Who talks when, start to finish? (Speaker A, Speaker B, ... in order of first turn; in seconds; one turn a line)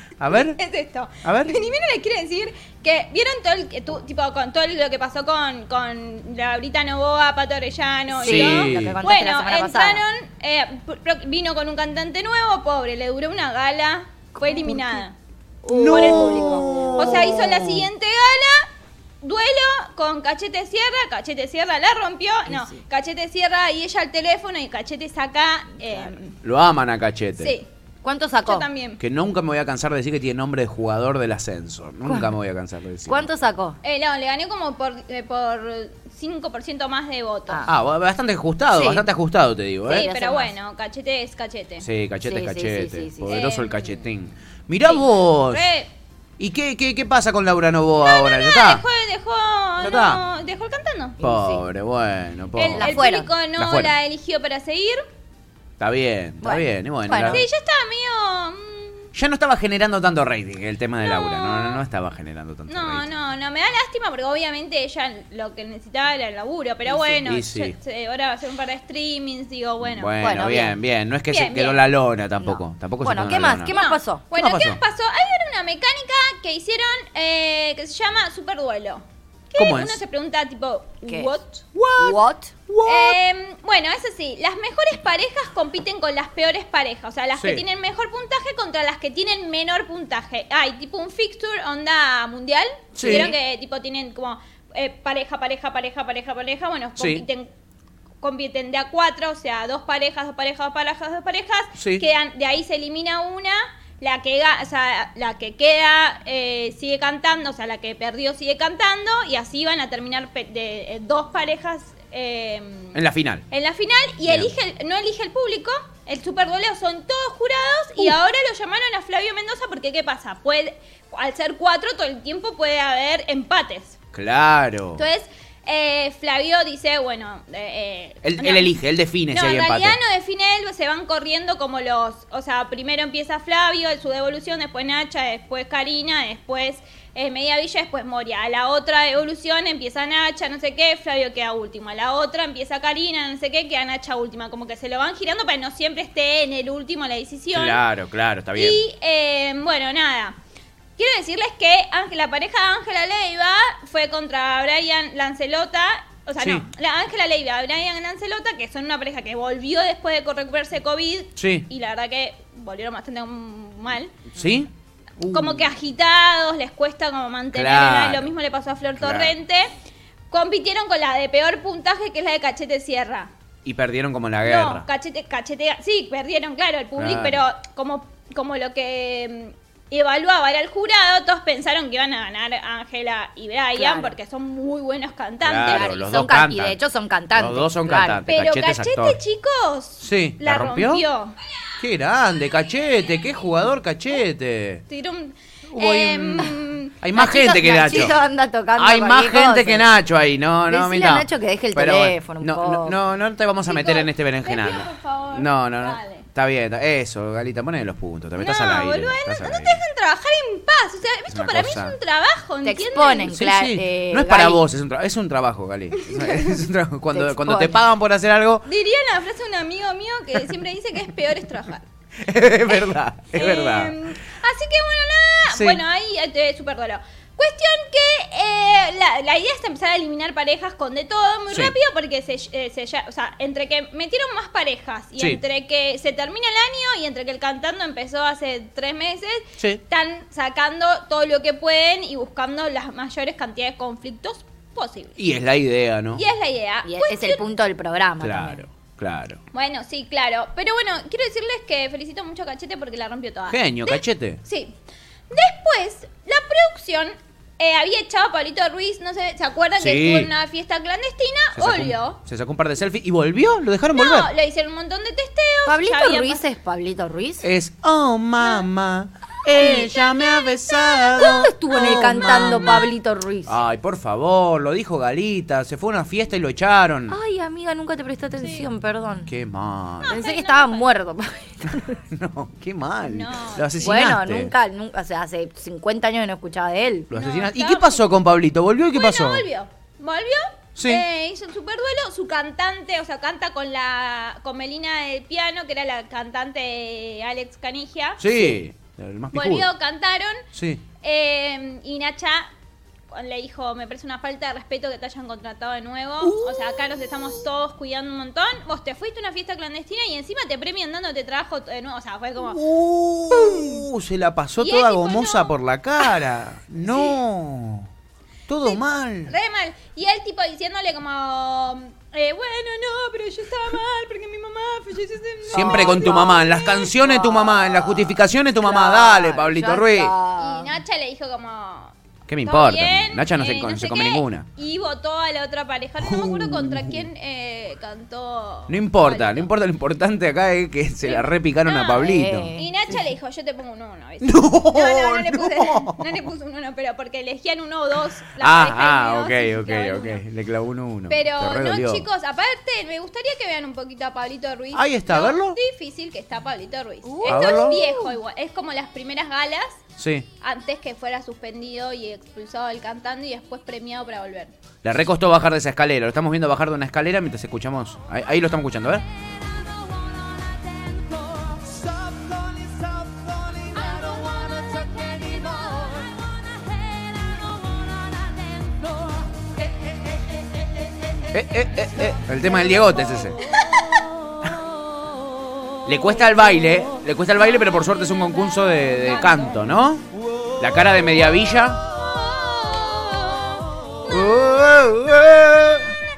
Speaker A: 0.2-0.6
Speaker B: 0.3-15.2
Speaker A: 1.2-1.6
Speaker A: 8.2-9.0
Speaker C: 8.2-10.0
Speaker C: 14.3-15.0
Speaker C: 15.6-17.5
Speaker A: 15.7-17.9
Speaker B: 15.9-18.7
Speaker B: 19.2-26.4
Speaker C: 22.4-22.8
Speaker C: 25.8-26.1
Speaker A: 26.4-27.5
Speaker B: 27.4-27.7
Speaker C: 28.0-28.7
Speaker B: 28.4-29.0
Speaker A: 29.0-33.3
Speaker C: 32.0-32.3
Speaker C: 33.1-33.8
Speaker B: 33.8-37.7
Speaker A: 37.7-40.1
Speaker C: 38.7-39.1
Speaker C: 39.8-40.5
Speaker B: 39.9-41.9
Speaker A: 41.8-45.7
Speaker C: 42.2-43.4
Speaker B: 43.3-43.9
Speaker B: 44.8-45.9
Speaker A: 46.4-48.8
Speaker B: 48.0-51.1
Speaker A: 49.8-50.2
Speaker C: 51.2-51.7
Speaker A: 51.2-53.0
Speaker B: 52.6-55.0
Speaker C: 52.6-53.3
Speaker A: 53.5-53.9
Speaker A: 55.8-57.4
Speaker C: 56.4-57.4
Speaker B: 57.3-59.1
Speaker A: 59.1-63.1
Speaker B: 61.0-61.8
Speaker B: 62.7-70.1
Speaker C: 66.8-67.2
Speaker A: 67.2-67.7
Speaker A: 69.8-73.7
Speaker C: 70.2-70.8
Speaker B: 71.3-71.9
Speaker C: 72.4-74.3
Speaker B: 73.7-81.6
Speaker A: 74.3-74.8
Speaker A: 79.5-80.0
Speaker C: 81.0-81.3
Speaker A: 81.7-83.2
Speaker C: 82.0-82.5
Speaker B: 82.8-97.5
Speaker A: 87.4-87.6
Speaker A: 92.9-93.3
Speaker C: 93.0-93.3
Speaker A: 97.0-97.2
Speaker B: 98.2-113.0
Speaker A: 101.8-102.0
Speaker A: 112.9-113.4
Speaker B: 113.5-124.0
Speaker A: 114.3-114.5
Speaker A: 124.1-125.0
Speaker B: 125.0-128.8
Speaker A: 128.2-130.0
Speaker B: 129.3-147.8
Speaker A: 147.5-148.8
Speaker B: 148.6-150.4
Speaker B: 151.0-164.1
Speaker A: 156.4-156.6
Speaker A: 161.4-161.7
Speaker A: 164.3-165.7
Speaker B: 165.3-169.7
Speaker A: 167.5-168.3
Speaker A: 169.0-169.3
Speaker B: 170.3-173.3
Speaker A: 173.6-174.8
Speaker B: 174.4-185.9
Speaker A: 177.0-177.4
Speaker C: 183.7-184.2
Speaker A: 185.4-186.8
Speaker C: 185.7-188.2
Speaker A: 187.3-189.2
Speaker B: 188.3-191.3
Speaker A: 190.0-191.0
Speaker A: 191.8-194.8
Speaker B: 194.9-196.9
Speaker A: 195.7-198.2
Speaker C: 197.1-199.9
Speaker A: 198.7-209.8
Speaker C: 200.7-203.0
Speaker B: 203.7-206.2
Speaker B: 208.4-213.3
Speaker A: 211.3-211.9
Speaker C: 212.6-214.6
Speaker A: 213.2-218.7
Speaker B: 215.9-216.5
Speaker C: 217.1-217.8
Speaker B: 218.6-221.8
Speaker A: 222.2-223.9
Speaker B: 223.3-245.2
Speaker A: 225.5-225.8
Speaker A: 245.2-246.2
Speaker B: 246.1-247.4
Speaker C: 246.8-248.6
Speaker A: 248.2-249.4
Speaker B: 249.5-254.8
Speaker A: 253.5-254.4
Speaker B: 255.3-262.2
Speaker A: 259.8-260.3
Speaker A: 261.6-264.3
Speaker B: 263.9-266.4
Speaker C: 265.6-267.5
Speaker A: 267.4-272.9
Speaker B: 269.5-271.4
Speaker C: 271.2-273.6
Speaker A: 273.4-277.2
Speaker C: 277.1-279.3
Speaker B: 278.4-278.7
Speaker A: 279.3-280.2
Speaker B: 280.0-280.9
Speaker C: 280.1-282.0
Speaker A: 282.1-284.5
Speaker B: 283.0-284.0
Speaker C: 283.8-287.1
Speaker A: 287.1-289.4
Speaker B: 287.1-288.1
Speaker B: 288.9-298.2
Speaker A: 290.8-291.0
Speaker A: 298.2-299.7
Speaker B: 299.3-300.4
Speaker A: 300.5-300.8
Speaker B: 301.0-302.5
Speaker B: 303.1-312.6
Speaker A: 306.2-307.1
Speaker A: 312.4-317.9
Speaker B: 313.3-313.8
Speaker B: 314.6-316.2
Speaker B: 316.9-317.1
Speaker A: 318.5-319.3
Speaker B: 318.6-326.6
Speaker C: 325.5-330.8
Speaker A: 325.5-330.1
Speaker B: 330.4-339.5
Speaker A: 332.3-334.5
Speaker A: 336.0-337.0
Speaker A: 338.7-342.5
Speaker B: 341.0-350.2
Speaker C: 342.0-343.0
Speaker A: 344.2-346.0
Speaker A: 348.4-352.0
Speaker B: 351.1-359.8
Speaker A: 354.7-355.6
Speaker C: 357.0-358.2
Speaker A: 357.2-357.8
Speaker A: 360.0-360.2
Speaker B: 360.4-364.5
Speaker A: 364.8-369.0
Speaker A: 381.3-383.4
Speaker B: 383.6-384.0
Speaker A: 385.9-390.0
Speaker B: 388.9-389.6
Speaker A: 390.6-391.8
Speaker B: 391.9-394.3
Speaker A: 394.1-395.9